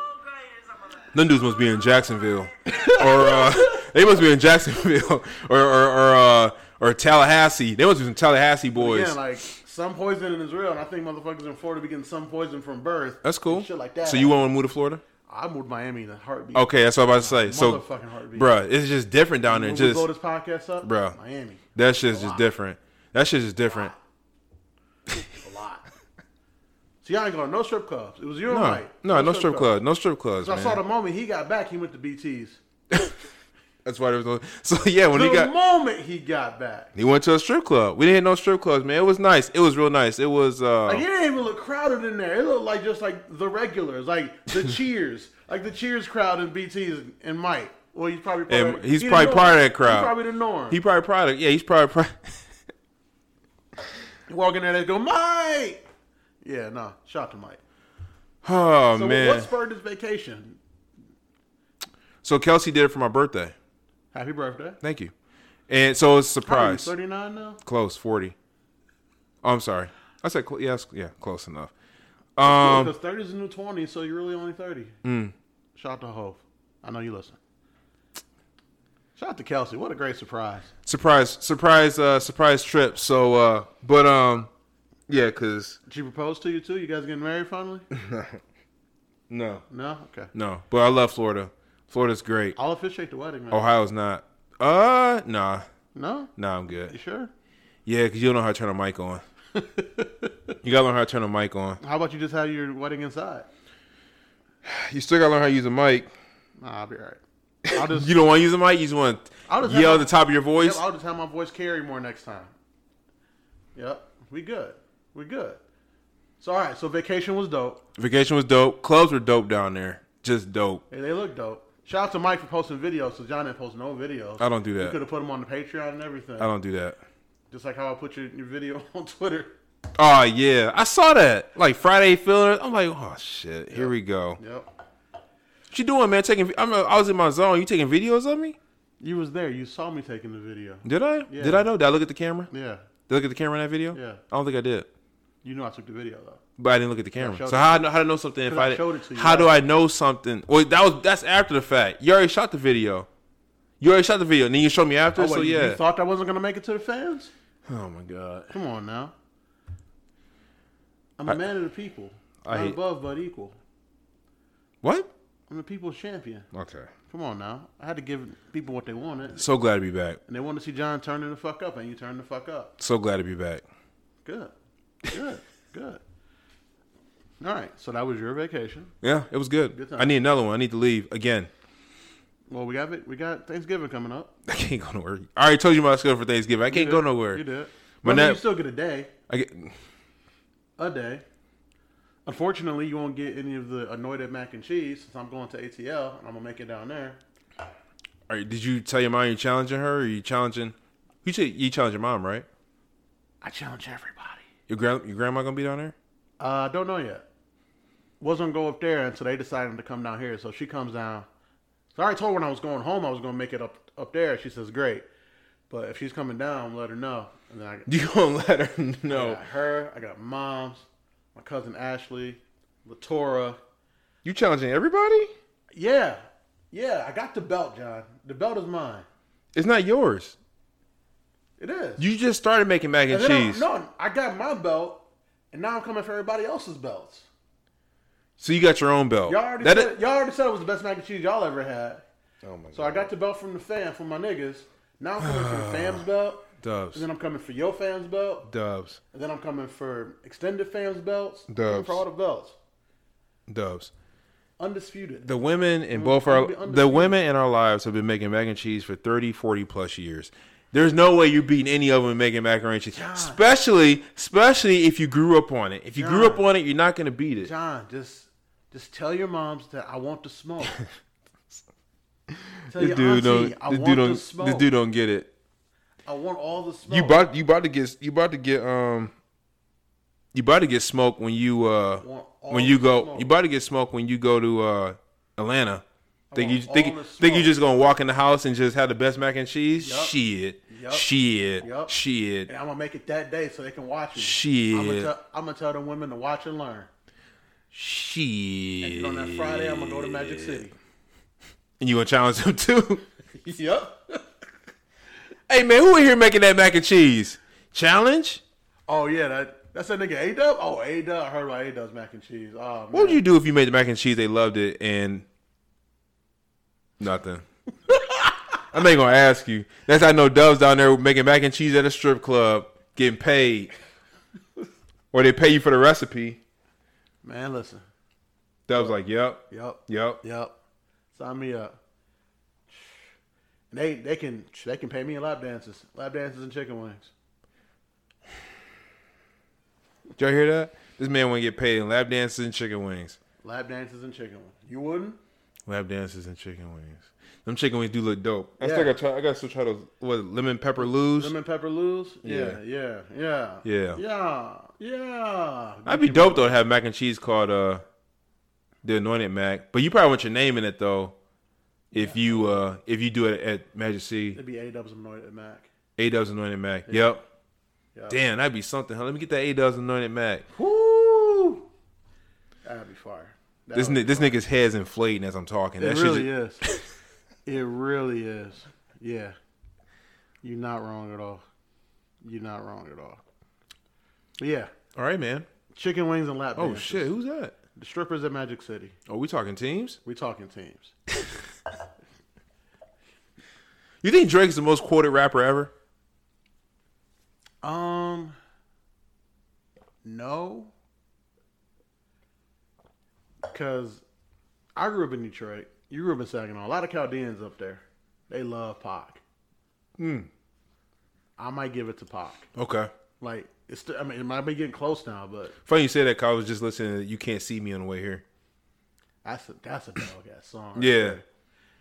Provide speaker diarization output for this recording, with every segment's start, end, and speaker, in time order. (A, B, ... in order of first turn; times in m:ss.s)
0:01.1-0:09.2 A
0:02.7-0:03.8 B
0:08.7-0:14.4 B
0:13.2-0:15.0 A
0:15.2-0:18.5 B
0:16.5-0:20.1 A
0:19.5-0:22.4 B
0:20.8-0:21.2 A
0:21.7-0:23.9 A
0:23.7-0:24.0 B
0:25.4-0:25.8 B
0:27.0-0:29.8 B
0:28.5-0:30.8 A
0:30.4-0:32.6 B
0:33.8-0:35.5 A
0:35.1-0:36.9 B
0:36.9-0:41.0 A
0:40.8-0:50.8 B
0:48.5-0:50.1 A
0:50.7-0:52.4 A
0:54.3-0:55.8 B
0:56.4-0:57.6 B
0:58.4-0:59.5 A
0:58.9-1:00.6 B
1:02.2-1:03.5 A
1:04.1-1:04.8 B
1:04.8-1:05.1 A
1:05.7-1:06.9 A
1:06.4-1:07.6 B
1:07.6-1:08.3 A
1:09.4-1:11.7 A
1:12.4-1:12.9 A
1:12.4-1:14.9 B
1:15.0-1:15.3 A
1:15.8-1:17.4 B
1:19.2-1:20.7 B
1:20.8-1:24.5 A
1:25.1-1:25.8 A
1:25.9-1:27.8 B
1:27.9-1:28.4 A
1:29.3-1:29.6 A
1:29.7-1:30.3 B
1:30.3-1:32.6 A
1:32.6-1:33.6 B
1:33.5-1:35.6 A
1:35.9-1:36.3 B
1:36.4-1:36.9 A
1:36.9-1:37.3 B
1:37.8-1:39.2 A
1:39.6-1:40.3 B
1:40.6-1:41.8 A
1:41.8-1:43.5 B
1:44.6-1:46.1 A
1:46.6-1:48.1 B
1:47.7-1:50.8 A
1:49.5-1:52.5 B
1:53.7-1:55.6 B
1:56.4-1:57.8 B
1:58.0-2:00.8 A
2:00.9-2:06.5 B
2:04.4-2:05.0 A
2:06.4-2:07.0 A
2:07.5-2:09.5 B
2:10.0-2:14.4 A
2:13.7-2:14.7 B
2:15.7-2:18.6 A
2:19.0-2:21.7 B
2:20.8-2:22.5 A
2:22.5-2:22.8 B
2:23.1-2:24.9 A
2:23.9-2:24.2 B
2:25.4-2:26.4 B
2:26.6-2:33.1 A
2:27.2-2:27.9 B
2:28.5-2:29.5 B
2:33.8-2:35.8 A
2:35.1-2:37.3 B
2:37.7-2:38.5 A
2:38.5-2:39.1 B
2:41.2-2:43.6 B
2:42.4-2:42.8 A
2:44.8-2:45.1 A
2:45.5-2:46.4 B
2:46.5-2:46.9 A
2:47.1-2:49.4 B
2:49.4-2:50.2 A
2:50.3-2:52.7 B
2:52.8-2:53.6 A
2:54.2-2:54.5 B
2:55.1-2:56.0 B
2:57.4-2:58.9 B
2:59.0-3:01.5 A
2:59.7-3:00.1 B
3:02.5-3:04.3 B
3:04.5-3:07.4 A
3:06.7-3:09.1 B
3:08.0-3:08.4 A
3:09.3-3:09.7 A
3:10.8-3:11.2 B
3:12.2-3:17.2 B
3:18.3-3:22.4 A
3:23.4-3:24.4 B
3:24.7-3:25.9 A
3:26.4-3:27.2 B
3:28.2-3:31.3 B
3:31.9-3:35.0 B
3:35.7-3:37.9 B
3:37.9-3:39.4 A
3:39.1-3:43.6 B
3:44.2-3:45.3 A
3:45.7-3:49.0 B
3:49.5-3:50.4 A
3:51.6-3:52.0 B
3:52.0-3:53.6 A
3:53.1-3:57.3 B
3:58.4-4:00.0 A
3:59.3-4:02.0 B
4:02.4-4:03.1 A
4:02.7-4:08.5 B
4:05.2-4:06.0 A
4:06.6-4:07.0 A
4:08.5-4:09.0 A
4:09.1-4:12.6 B
4:11.5-4:12.0 A
4:13.5-4:13.9 A
4:14.6-4:15.3 B
4:15.2-4:27.5 A
4:15.9-4:17.2 B
4:22.9-4:23.4 B
4:26.0-4:26.4 B
4:27.4-4:30.8 B
4:32.7-4:35.3 A
4:32.7-4:34.7 B
4:36.0-4:37.2 B
4:36.9-4:39.1 A
4:40.3-4:45.8 A
4:42.0-4:43.3 B
4:46.3-4:47.5 B
4:46.3-4:52.5 A
4:49.8-4:50.1 B
4:50.7-4:51.9 B
4:52.5-4:56.9 B
4:54.2-4:55.1 A
4:57.7-5:00.6 A
4:58.8-5:00.7 B
5:01.8-5:03.0 A
5:03.3-5:04.2 B
5:05.5-5:08.4 A
5:08.9-5:13.2 B
5:12.9-5:15.2 A
5:17.0-5:17.4 A
5:18.7-5:23.7 A
5:25.1-5:26.4 A
5:27.2-5:27.8 B
5:28.7-5:30.2 A
5:29.5-5:30.5 B
5:31.1-5:31.7 B
5:33.7-5:37.1 B
5:40.2-5:43.2 A
5:43.4-5:45.2 B
5:45.7-5:51.3 A
5:48.6-5:48.9 B
5:50.8-5:56.6 B
5:52.2-5:52.6 A
5:53.6-5:54.0 A
5:55.8-5:57.8 A
5:58.8-6:01.1 A
6:01.9-6:04.4 A
6:01.9-6:02.6 B
6:04.3-6:05.7 B
6:06.0-6:07.2 A
6:06.9-6:07.1 B
6:08.1-6:10.4 A
6:10.5-6:11.6 B
6:12.6-6:14.4 B
6:13.7-6:16.3 A
6:15.8-6:16.6 B
6:17.4-6:19.3 B
6:20.4-6:21.4 B
6:22.2-6:23.2 B
6:24.4-6:24.7 B
6:25.0-6:25.4 A
6:25.7-6:27.1 B
6:26.6-6:27.5 A
6:27.7-6:28.9 B
6:29.1-6:30.0 A
6:30.0-6:30.9 B
6:34.0-6:35.7 A
6:37.6-6:38.4 B
6:40.0-6:40.7 B
6:43.5-6:44.0 B
6:44.8-6:49.2 B
6:50.0-6:50.3 A
6:51.4-6:52.5 B
6:52.6-6:52.9 A
6:53.2-6:55.5 B
6:55.6-6:58.2 A
6:59.2-7:01.2 B
7:00.8-7:01.2 A